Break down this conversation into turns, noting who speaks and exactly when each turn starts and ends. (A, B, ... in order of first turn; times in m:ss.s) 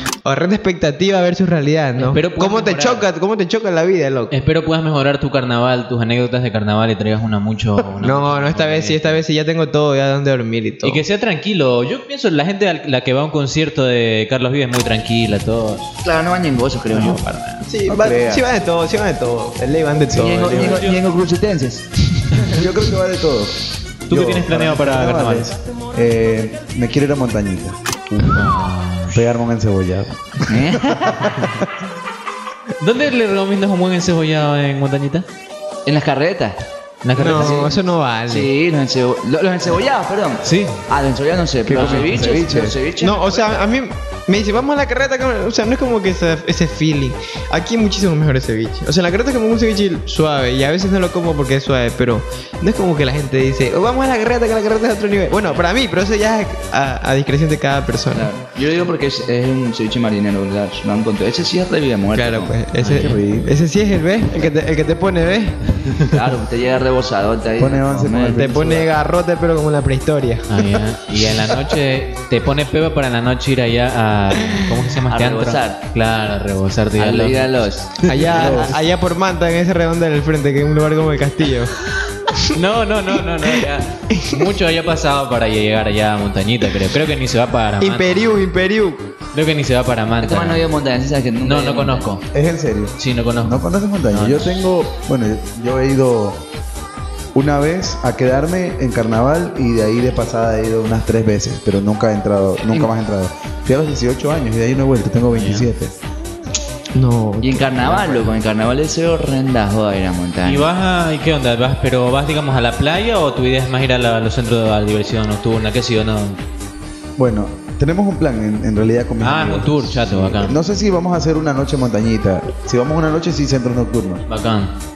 0:00.2-0:04.3 A
0:02.0-0:03.1 B
0:04.3-0:09.2 B
0:08.0-0:11.0 A
0:10.8-0:15.9 B
0:16.0-0:17.2 C
0:16.9-0:17.6 B
0:17.6-0:20.9 A
0:17.9-0:18.4 D
0:20.0-0:20.6 D
0:20.1-0:21.8 C
0:20.5-0:21.0 B
0:22.3-0:22.6 A
0:22.4-0:28.5 D
0:24.1-0:25.5 B
0:28.2-0:29.2 B
0:29.1-0:31.7 D
0:30.5-0:31.2 C
0:32.8-0:35.2 B
0:35.8-0:36.6 C
0:37.0-0:37.7 B
0:37.2-0:38.5 A
0:37.2-0:37.7 C
0:38.3-0:43.6 C
0:40.4-0:40.8 B
0:41.7-0:42.8 D
0:41.7-0:42.1 B
0:43.0-0:58.3 A
0:58.1-1:02.5 C
1:02.1-1:05.7 A
1:02.8-1:03.2 B
1:03.0-1:03.5 D
1:06.1-1:08.5 C
1:07.6-1:08.9 D
1:08.3-1:10.5 A
1:10.5-1:17.5 B
1:15.1-1:15.8 C
1:17.0-1:18.7 C
1:18.0-1:21.7 A
1:18.1-1:18.8 D
1:22.5-1:28.4 B
1:24.1-1:24.5 A
1:27.8-1:29.0 A
1:29.3-1:30.7 B
1:30.2-1:32.1 C
1:31.4-1:32.2 B
1:32.3-1:36.4 D
1:33.0-1:34.6 B
1:37.3-1:45.9 D
1:45.3-1:45.7 B
1:46.9-1:48.3 A
1:47.4-1:50.7 C
1:50.4-1:56.4 B
1:57.2-2:04.2 D
1:59.2-2:00.6 B
2:04.3-2:04.7 B